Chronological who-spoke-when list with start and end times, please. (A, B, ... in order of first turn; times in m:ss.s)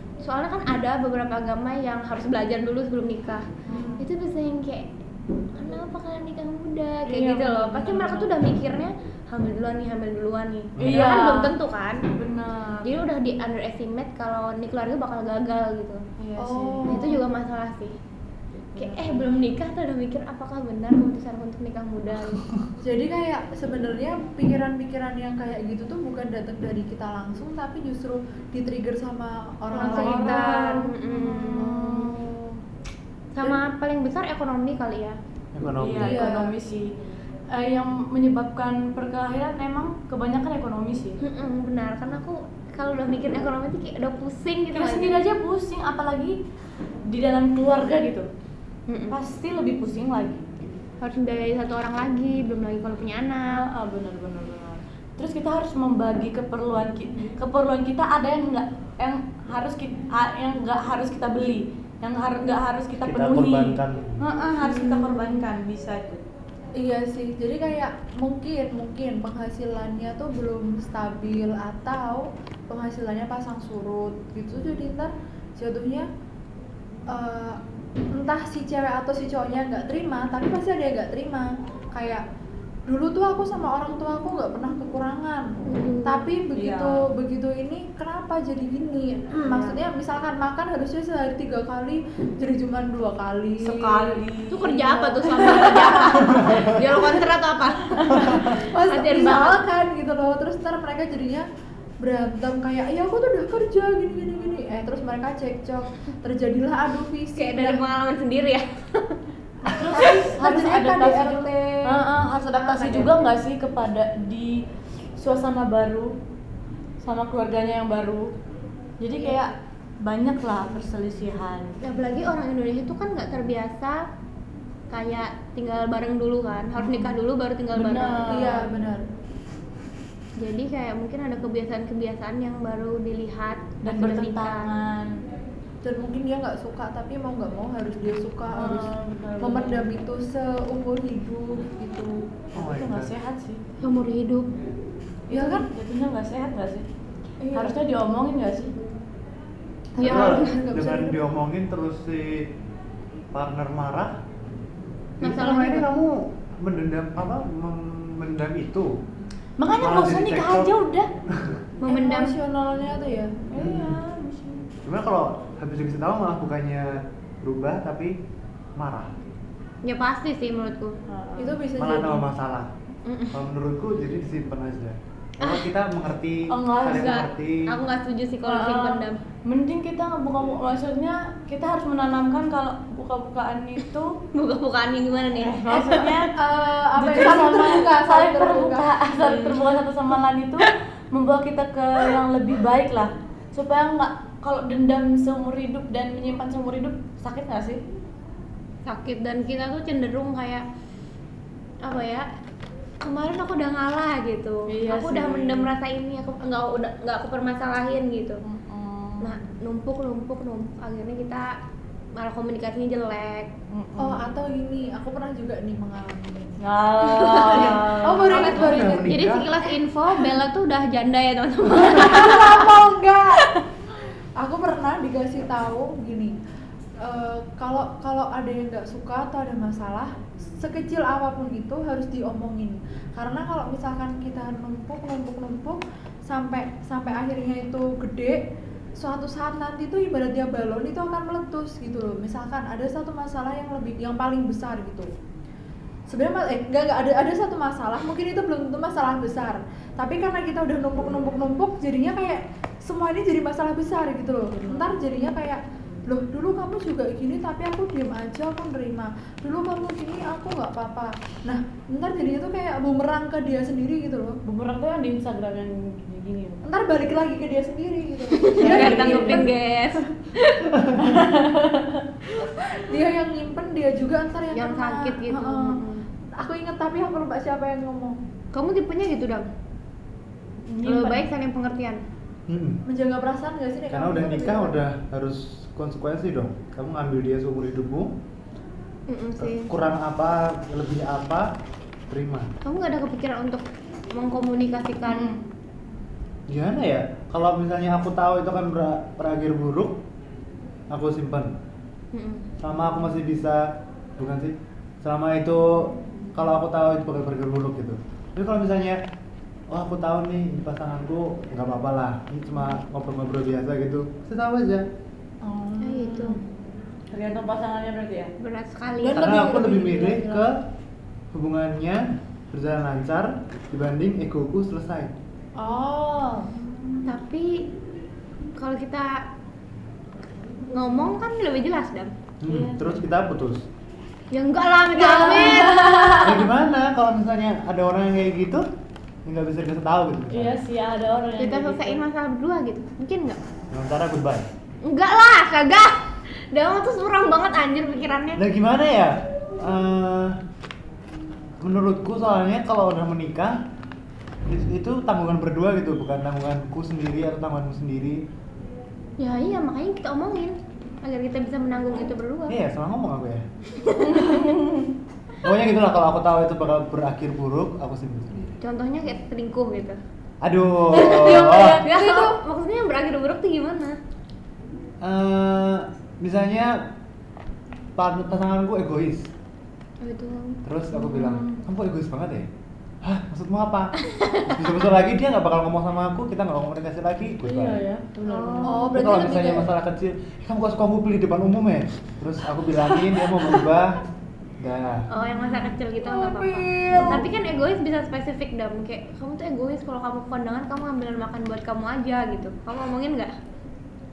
0:00.2-0:03.5 A
0:03.7-0:04.0 B
0:04.0-0:04.9 A
0:05.6-0:12.0 A
0:07.1-0:08.3 C
0:10.8-0:11.1 D
0:10.8-0:11.6 C
0:12.1-0:12.9 C
0:12.8-0:16.0 A
0:16.2-0:17.1 C
0:16.4-0:17.2 B
0:16.9-0:18.0 A
0:18.7-0:19.4 C
0:18.8-0:22.4 A
0:22.8-0:30.8 B
0:29.7-0:32.1 A
0:29.7-0:32.5 C
0:31.6-0:32.2 B
0:33.3-0:35.2 A
0:35.5-0:36.3 D
0:35.8-0:36.9 C
0:36.0-0:36.5 B
0:37.5-0:41.2 C
0:41.2-0:45.2 A
0:44.7-0:46.4 C
0:47.1-0:48.3 C
0:48.9-0:49.2 A
0:49.1-0:50.5 C
0:51.0-0:53.6 A
0:53.5-1:06.2 C
1:03.0-1:04.2 D
1:04.6-1:05.4 A
1:06.8-1:16.1 B
1:17.1-1:17.6 B
1:18.1-1:22.2 B
1:22.9-1:34.2 B
1:25.7-1:26.3 A
1:26.6-1:27.1 C
1:29.5-1:29.8 C
1:33.6-1:36.2 C
1:34.5-1:39.6 A
1:35.3-1:37.0 B
1:36.2-1:36.8 D
1:38.0-1:38.2 C
1:38.1-1:38.6 D
1:38.2-1:41.5 B
1:42.0-1:47.8 B
1:47.4-1:49.2 A
1:49.7-1:54.6 C
1:49.9-1:52.1 B
1:52.6-1:53.2 A
1:55.2-1:56.1 C
1:57.0-1:58.3 C
1:59.0-2:01.8 C
2:01.8-2:04.0 A
2:04.9-2:08.3 A
2:07.7-2:08.7 C
2:08.3-2:09.0 B
2:10.4-2:14.7 A
2:13.8-2:15.2 C
2:15.8-2:22.4 B
2:18.6-2:19.9 C
2:22.5-2:23.6 C
2:22.6-2:23.1 D
2:23.8-2:24.5 A
2:25.3-2:26.8 C
2:25.3-2:25.7 B
2:27.4-2:27.8 B
2:27.5-2:28.7 C
2:30.0-2:31.2 B
2:30.0-2:30.6 A
2:30.0-2:32.5 D
2:33.3-2:34.2 D
2:35.2-2:39.0 D
2:35.2-2:35.9 A
2:39.6-2:41.1 C
2:39.8-2:40.7 D
2:41.3-2:41.6 D
2:41.8-2:42.4 A
2:41.9-2:43.4 B
2:43.5-2:44.7 C
2:43.6-2:44.0 D
2:44.8-2:48.2 D
2:48.8-2:49.2 D
2:49.8-2:51.0 A
2:51.1-2:51.6 C
2:51.4-2:52.2 B
2:51.8-2:52.7 D
2:53.1-2:53.4 A
2:53.3-2:57.8 D
2:55.4-2:55.7 A
2:56.5-2:57.2 C
2:56.9-2:59.2 A
2:58.4-3:04.2 C
3:04.3-3:06.1 A
3:05.4-3:06.4 C
3:06.3-3:09.0 B
3:07.0-3:17.8 C
3:09.2-3:09.6 A
3:18.9-3:20.6 A
3:21.8-3:22.3 A
3:23.0-3:28.4 A
3:24.7-3:25.7 C
3:28.4-3:29.3 C
3:29.2-3:31.6 A
3:32.2-3:33.5 A
3:33.7-3:34.2 C
3:34.0-3:36.5 B
3:36.6-3:38.8 C
3:37.1-3:37.9 A
3:37.3-3:39.1 B
3:38.4-3:39.5 D
3:39.0-3:42.7 A
3:41.8-3:43.4 B
3:44.4-3:46.4 B
3:47.0-3:58.4 B
3:59.0-4:05.1 B
4:06.1-4:24.4 B
4:14.6-4:14.9 C
4:24.4-4:26.6 C
4:26.6-4:29.5 B
4:28.3-4:30.9 A
4:28.6-4:29.4 C
4:31.0-4:32.1 C
4:32.4-4:35.8 B
4:34.5-4:36.1 A
4:36.4-4:38.2 B
4:38.5-4:39.5 A
4:40.7-4:41.2 C
4:40.8-4:42.0 A
4:42.5-4:42.8 D
4:42.9-4:44.8 B
4:43.9-4:48.1 D
4:49.1-4:49.7 A
4:49.4-4:51.5 D
4:52.1-4:52.5 D
4:52.6-4:55.3 A
4:55.1-4:55.4 C
4:56.5-5:00.0 D
5:00.9-5:01.6 D
5:02.1-5:02.5 A
5:02.6-5:09.0 D
5:09.7-5:14.9 D
5:15.4-5:16.4 B
5:15.8-5:16.4 A
5:17.1-5:18.3 C
5:18.4-5:19.5 A
5:19.0-5:20.4 B
5:19.1-5:20.7 D
5:21.3-5:25.1 D
5:25.6-5:26.6 B
5:27.1-5:27.7 A
5:28.6-5:29.3 A
5:30.7-5:32.1 A
5:32.4-5:33.7 D
5:32.5-5:33.0 C
5:34.3-5:36.2 A
5:35.0-5:35.8 B
5:35.0-5:36.4 C
5:36.2-5:38.7 D
5:39.2-5:40.6 D
5:40.3-5:42.0 C
5:41.4-5:43.4 A
5:43.7-5:44.5 D
5:44.8-5:48.4 A
5:48.4-5:50.4 D
5:51.6-5:53.6 D
5:54.5-5:58.2 D
5:59.2-6:02.6 A
6:02.5-6:03.4 D
6:03.8-6:04.4 A
6:04.0-6:04.9 C
6:05.4-6:08.6 D
6:08.6-6:10.0 A
6:10.4-6:11.8 D
6:10.9-6:11.9 C
6:11.0-6:14.0 A
6:11.4-6:12.4 B
6:15.0-6:16.9 D
6:18.0-6:19.3 D
6:20.0-6:20.6 A
6:20.6-6:22.5 D
6:21.1-6:21.6 C
6:23.0-6:27.8 D
6:24.0-6:24.6 A
6:27.4-6:28.9 C
6:28.2-6:29.2 A
6:28.6-6:29.7 B
6:28.9-6:34.0 D
6:34.6-6:35.1 D
6:35.1-6:43.3 A
6:35.5-6:37.3 B